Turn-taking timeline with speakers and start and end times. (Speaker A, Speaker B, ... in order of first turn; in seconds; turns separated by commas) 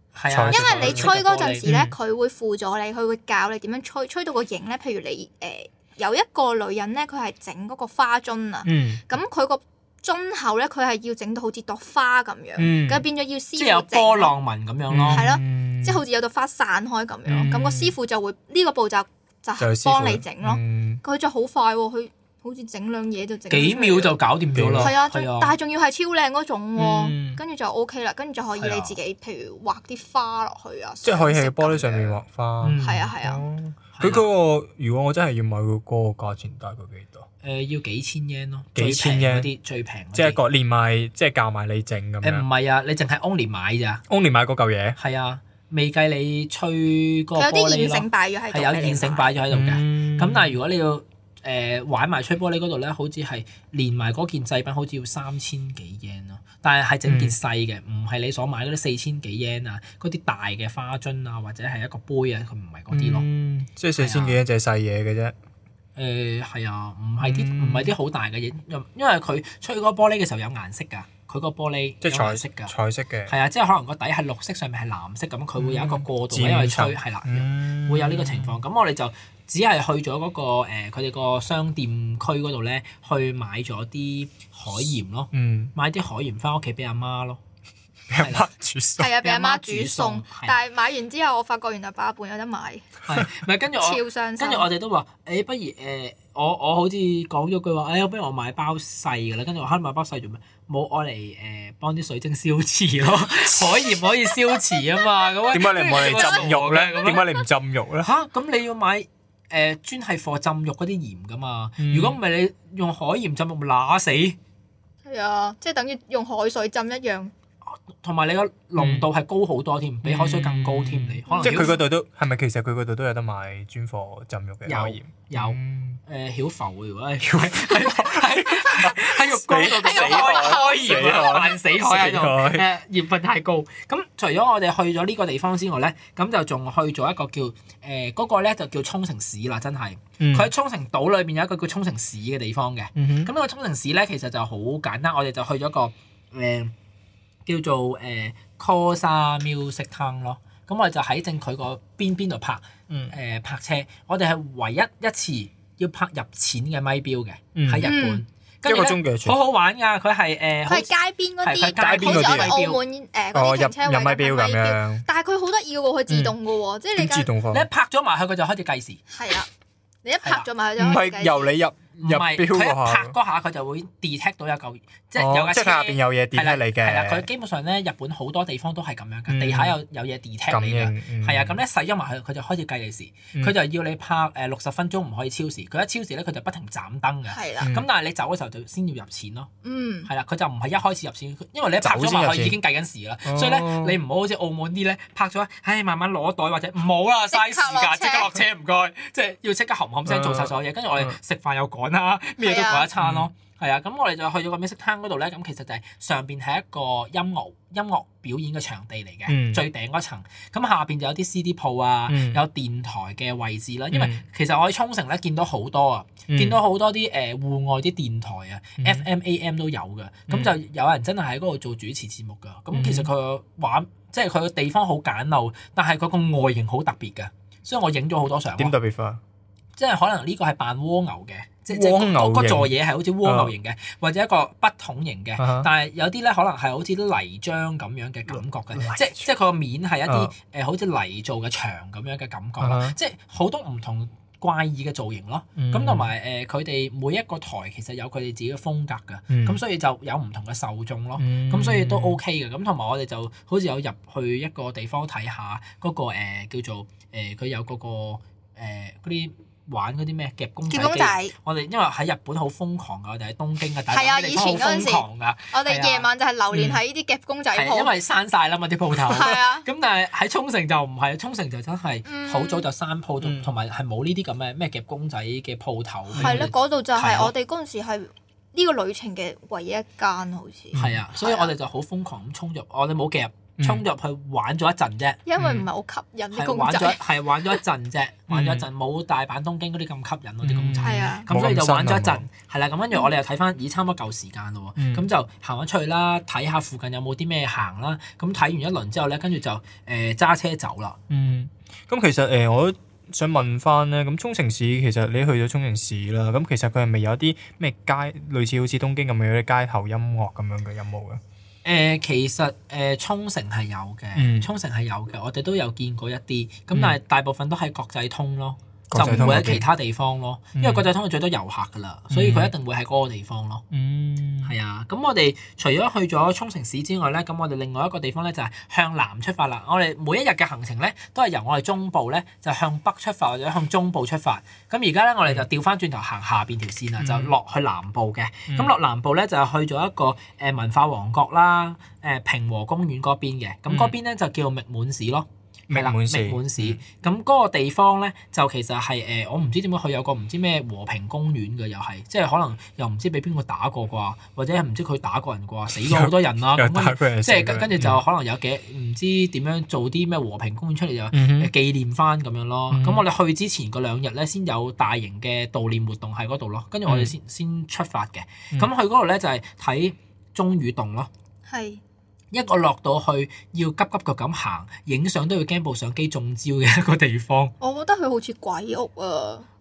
Speaker A: 0.1-1.7, Speaker B: 0.3-1.1, Speaker C: 0.5-14.3, Speaker B: 1.6-1.9, Speaker B: 8.6-9.0, Speaker B: 12.6-13.0, Speaker A: 13.6-15.2, Speaker B: 14.9-16.0, Speaker C: 15.1-24.1, Speaker B: 17.2-17.9, Speaker B: 19.6-21.0, Speaker A: 23.5-25.5, Speaker B: 24.5-24.9, Speaker C: 24.8-32.2, Speaker B: 26.8-27.4, Speaker A: 28.6-28.9, Speaker B: 31.0-37.3, Speaker A: 32.6-33.1, Speaker C: 32.8-33.4, Speaker A: 33.9-34.3, Speaker A: 37.4-40.4, Speaker B: 38.7-39.5, Speaker B: 40.1-42.5, Speaker A: 42.2-44.0, Speaker B: 44.1-45.0, Speaker A: 45.0-63.3, Speaker C: 47.4-49.4, Speaker B: 49.5-50.6, Speaker B: 57.0-57.4, Speaker B: 62.9-65.3, Speaker A: 64.0-64.4, Speaker A: 66.0-72.7, Speaker B: 67.2-67.9, Speaker B: 72.0-73.3, Speaker A: 73.3-87.4, Speaker B: 75.6-78.6, Speaker B: 85.3-85.7, Speaker B: 88.1-89.1, Speaker A: 88.2-88.5, Speaker C: 89.0-92.9, Speaker A: 89.2-90.6, Speaker A: 93.0-107.2, Speaker C: 93.8-94.7, Speaker C: 104.5-107.4, Speaker B: 105.5-108.1, Speaker A: 108.0-114.4, Speaker B: 111.8-112.2, Speaker C: 115.0-117.3, Speaker A: 117.7-121.8, Speaker B: 118.8-119.1, Speaker B: 120.0-126.0, Speaker C: 121.3-121.8, Speaker A: 124.7-146.7, Speaker B: 127.2-132.7, Speaker C: 129.6-131.5, Speaker B: 140.2-140.5, Speaker B: 142.9-143.3, Speaker A: 147.4-160.9, Speaker B: 152.9-153.1, Speaker B: 157.5-157.9, Speaker C: 157.8-158.2, Speaker B: 158.6-159.4, Speaker C: 160.7-167.3, Speaker A: 161.4-162.8, Speaker B: 161.8-162.6, Speaker B: 163.3-165.1, Speaker B: 166.1-166.3, Speaker B: 167.0-167.7, Speaker A: 167.5-169.0, Speaker C: 169.1-169.5, Speaker C: 170.0-171.5, Speaker B: 170.8-173.2, Speaker A: 172.0-189.5, Speaker B: 175.2-177.3, Speaker B: 179.3-179.8, Speaker B: 180.5-181.6, Speaker C: 187.3-187.7, Speaker B: 187.6-187.8, Speaker C: 189.6-190.1, Speaker A: 190.1-228.7, Speaker B: 191.8-192.6, Speaker B: 193.2-194.0, Speaker C: 197.3-198.3, Speaker B: 200.1-201.2, Speaker C: 202.4-202.9, Speaker B: 203.0-203.3, Speaker B: 209.3-209.6, Speaker B: 212.1-212.4, Speaker B: 213.9-214.2, Speaker B: 216.3-216.6, Speaker B: 218.8-219.1, Speaker B: 222.7-223.1, Speaker B: 228.6-229.2, Speaker A: 229.8-266.1, Speaker B: 231.7-233.5, Speaker B: 235.4-235.7, Speaker B: 238.3-239.3, Speaker B: 240.1-240.3, Speaker B: 242.6-242.9, Speaker B: 245.6-246.1, Speaker B: 249.3-249.6, Speaker B: 251.2-252.2, Speaker C: 260.7-261.3, Speaker C: 263.9-267.9, Speaker A: 267.5-277.3, Speaker C: 269.0-269.6, Speaker C: 272.1-272.6, Speaker B: 273.2-273.5, Speaker B: 276.1-276.5, Speaker C: 276.2-281.5, Speaker B: 280.7-281.0, Speaker A: 280.7-285.2, Speaker B: 283.6-283.8, Speaker C: 285.2-287.5, Speaker B: 285.4-285.7, Speaker A: 286.3-301.0, Speaker B: 288.3-288.6, Speaker B: 290.4-292.3, Speaker C: 290.8-291.2, Speaker B: 294.8-295.1, Speaker B: 301.1-311.2, Speaker A: 311.6-323.6, Speaker B: 314.1-314.5, Speaker B: 318.9-319.7, Speaker B: 320.6-320.9, Speaker B: 322.1-322.5, Speaker B: 323.7-324.5, Speaker A: 324.4-371.1, Speaker B: 337.0-337.4, Speaker B: 338.5-338.7, Speaker B: 343.7-343.9, Speaker B: 345.7-346.8, Speaker B: 355.7-358.0, Speaker B: 361.1-361.5, Speaker B: 362.7-363.0, Speaker B: 366.9-367.1, Speaker C: 371.5-371.8, Speaker A: 372.3-377.5, Speaker C: 377.6-379.4